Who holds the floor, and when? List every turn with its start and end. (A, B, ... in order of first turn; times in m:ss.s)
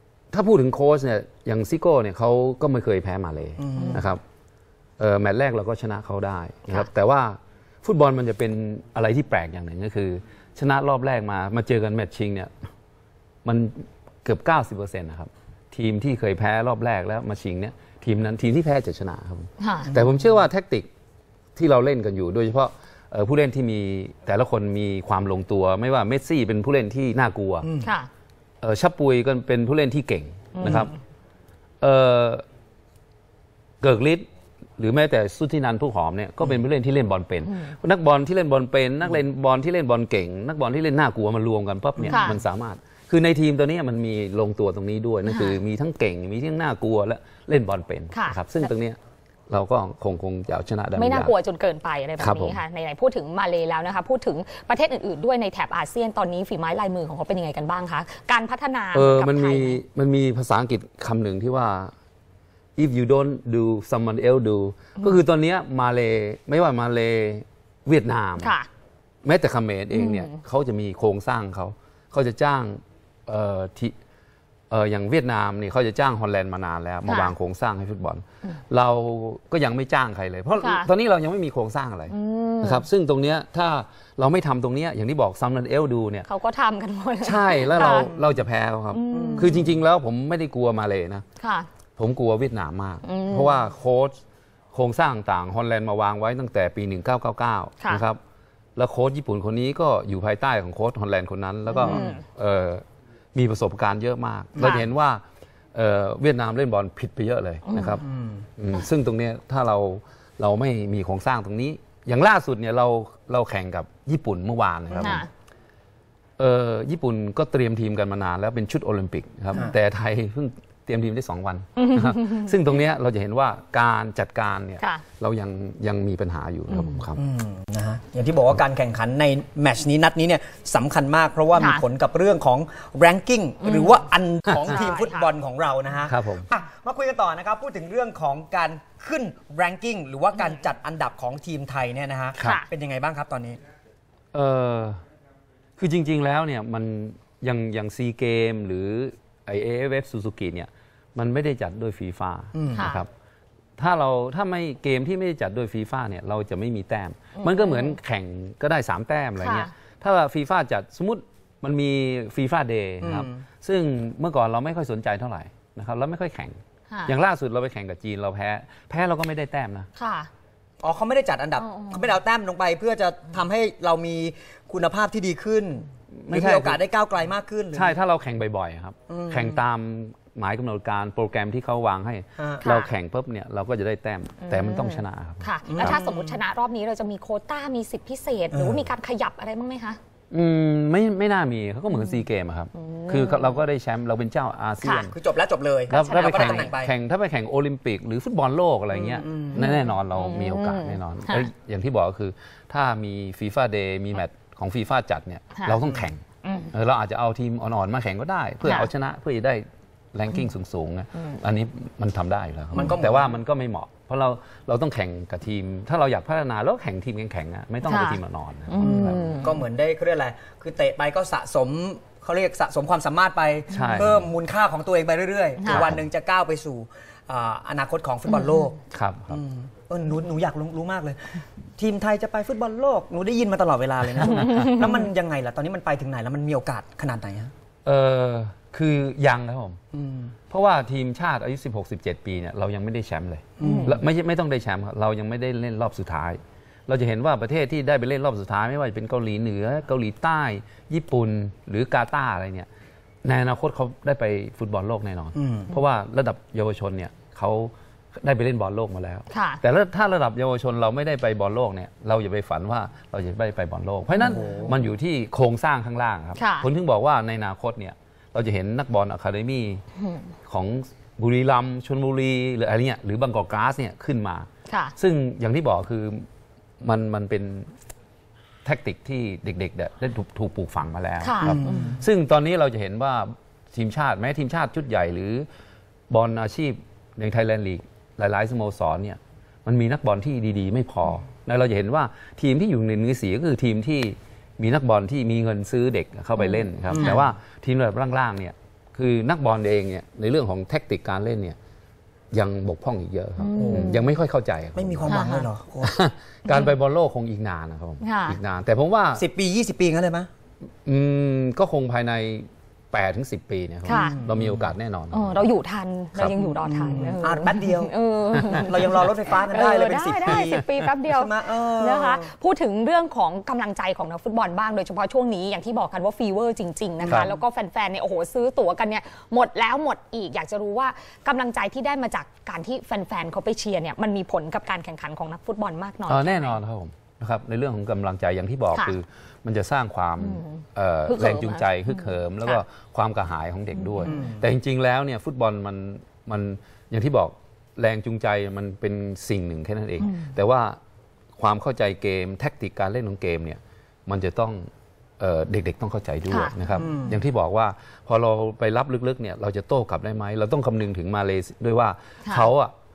0:00.3-0:04.2 A
0:03.6-0:04.1 B
0:03.8-0:04.0 C
0:05.0-0:12.5 A
0:13.4-0:20.9 A
0:19.6-0:19.9 C
0:19.8-0:20.2 B
0:21.6-0:27.7 A
0:27.6-0:27.9 B
0:27.8-0:28.1 C
0:28.6-0:30.9 A
0:30.6-0:30.9 C
0:31.8-0:32.4 A
0:33.8-0:34.3 A
0:34.8-0:49.0 A
0:42.1-0:42.4 C
0:45.2-0:45.6 C
0:48.1-0:48.7 C
0:49.5-0:51.3 A
0:51.0-0:59.8 C
0:52.2-0:52.6 A
0:58.9-1:01.9 A
1:02.8-1:08.6 A
1:08.4-1:08.7 C
1:09.2-1:13.9 A
1:09.9-1:10.3 C
1:14.7-1:26.3 A
1:17.1-1:17.3 C
1:20.6-1:20.9 C
1:22.1-1:22.9 C
1:26.3-1:28.1 C
1:27.2-1:31.2 A
1:27.8-1:28.2 B
1:28.9-1:29.6 C
1:29.1-1:29.7 B
1:31.4-1:31.7 C
1:32.0-1:34.2 A
1:33.0-1:33.6 C
1:34.7-1:38.2 A
1:37.8-1:38.0 C
1:38.8-1:42.8 A
1:41.7-1:42.2 C
1:41.8-1:42.2 B
1:43.3-1:45.2 A
1:44.6-1:44.8 C
1:45.7-1:48.1 A
1:47.7-1:48.0 C
1:48.0-1:48.5 B
1:48.6-1:55.3 A
1:54.9-1:55.2 B
1:55.0-1:55.3 C
1:56.4-2:07.2 A
2:01.8-2:02.5 C
2:06.7-2:07.0 C
2:07.2-2:23.6 B
2:11.5-2:11.8 C
2:13.6-2:14.0 C
2:14.6-2:15.3 C
2:16.0-2:16.5 A
2:22.4-2:22.6 A
2:22.4-2:22.7 C
2:24.3-2:25.0 A
2:25.8-2:33.1 A
2:32.6-2:32.9 B
2:32.7-2:33.0 C
2:33.8-2:49.9 A
2:37.4-2:38.0 C
2:39.4-2:39.7 C
2:43.0-2:43.4 B
2:46.9-2:47.1 C
2:50.0-2:50.3 C
2:50.8-2:58.0 B
2:51.6-2:52.2 C
2:56.2-2:56.8 A
2:57.7-3:06.0 A
2:59.1-2:59.6 B
3:02.4-3:02.6 B
3:02.6-3:02.9 C
3:04.4-3:10.0 C
3:05.7-3:06.4 B
3:08.5-3:08.9 B
3:10.3-3:15.2 A
3:12.8-3:13.6 C
3:14.8-3:15.1 C
3:15.0-3:16.9 B
3:15.9-3:16.7 C
3:15.9-3:39.5 A
3:19.1-3:19.6 B
3:19.6-3:21.5 C
3:26.4-3:26.7 C
3:28.6-3:28.9 C
3:32.7-3:33.3 B
3:37.8-3:39.6 C
3:38.8-3:48.8 B
3:43.7-3:44.2 A
3:43.7-3:44.1 C
3:45.6-3:45.9 C
3:45.7-3:46.0 A
3:48.9-3:49.4 A
3:49.3-3:57.5 B
3:57.8-3:59.8 A
3:59.9-4:00.4 B
4:00.5-4:12.7 A
4:03.6-4:04.0 B
4:03.6-4:04.0 C
4:13.2-4:29.8 A
4:15.4-4:15.7 B
4:19.3-4:19.6 C
4:24.2-4:24.7 B
4:26.4-4:26.7 C
4:30.0-4:30.2 C
4:30.5-4:36.3 A
4:34.7-4:34.9 C
4:36.8-4:37.7 A
4:38.6-4:45.5 A
4:41.2-4:42.0 C
4:41.4-4:42.0 B
4:46.1-5:01.6 A
4:56.4-4:57.2 C
4:56.9-4:57.2 B
5:02.3-5:05.3 A
5:03.4-5:04.0 C
5:03.6-5:03.9 B
5:04.8-5:06.0 B
5:05.1-5:05.5 C
5:05.8-5:09.2 A
5:08.0-5:08.4 C
5:09.2-5:10.3 B
5:10.9-5:15.5 A
5:13.8-5:14.2 C
5:13.9-5:14.7 B
5:15.1-5:36.6 C
5:16.2-5:16.5 A
5:16.6-5:17.9 B
5:18.6-5:22.3 B
5:20.3-5:20.6 A
5:36.1-5:50.8 A
5:40.2-5:42.6 C
5:43.8-5:44.2 C
5:44.1-5:44.4 B
5:50.0-5:50.3 C
5:51.4-5:54.7 A
5:55.2-6:02.7 A
5:56.3-5:56.6 C
5:56.8-5:57.2 B
6:02.2-6:02.5 C